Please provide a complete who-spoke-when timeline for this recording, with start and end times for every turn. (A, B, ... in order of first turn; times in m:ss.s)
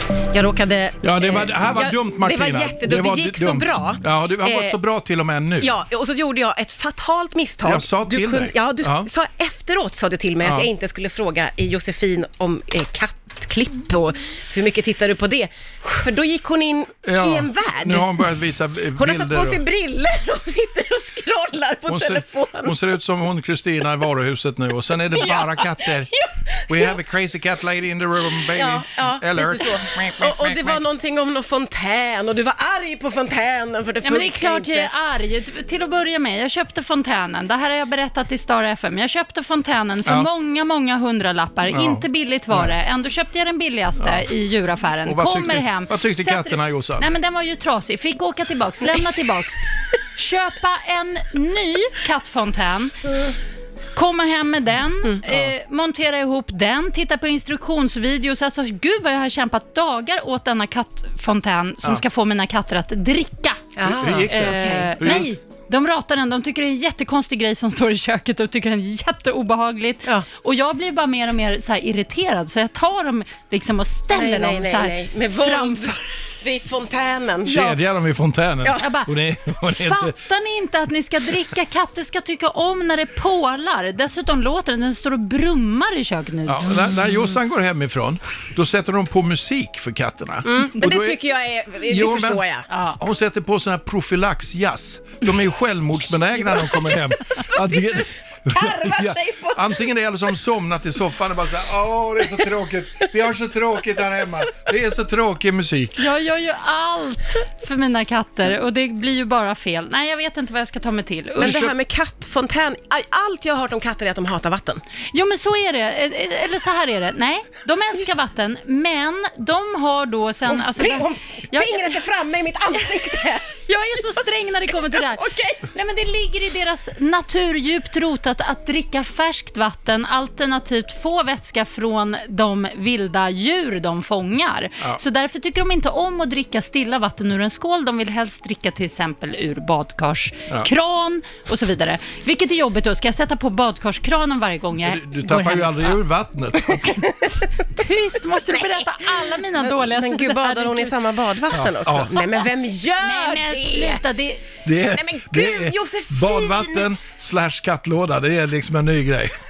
0:00.2-0:04.8 A
0:01.0-0:05.7 B
0:05.6-0:18.2 A
0:07.6-0:09.1 B
0:10.4-0:10.7 B
0:17.0-0:19.6 B
0:19.0-0:22.8 A
0:21.9-0:26.1 B
0:25.1-0:27.0 A
0:26.7-0:30.8 B
0:28.5-0:34.9 A
0:34.0-0:49.6 C
0:41.7-0:42.7 B
0:44.0-0:44.3 B
0:45.0-0:47.1 B
0:50.1-0:53.1 C
0:53.9-1:03.7 C
1:03.8-1:05.2 A
1:03.8-1:05.3 B
1:04.3-1:16.2 C
1:14.1-1:17.8 A
1:17.4-1:20.1 B
1:18.6-1:18.9 A
1:18.8-1:27.1 C
1:26.4-1:31.2 B
1:30.4-1:32.6 A
1:31.8-1:32.4 B
1:32.7-1:33.0 C
1:33.0-1:46.1 B
1:37.5-1:39.8 A
1:46.0-1:51.7 C
1:51.4-1:51.7 B
1:51.4-1:54.8 A
1:55.1-2:02.0 C
2:00.5-2:03.5 A
2:02.8-2:26.0 C
2:04.9-2:05.6 A
2:24.8-2:27.1 B
2:26.8-2:27.6 A
2:27.6-2:30.9 C
2:28.5-2:34.0 A
2:31.5-2:32.2 B
2:33.0-2:34.4 C
2:34.6-2:39.3 B
2:34.9-2:36.9 A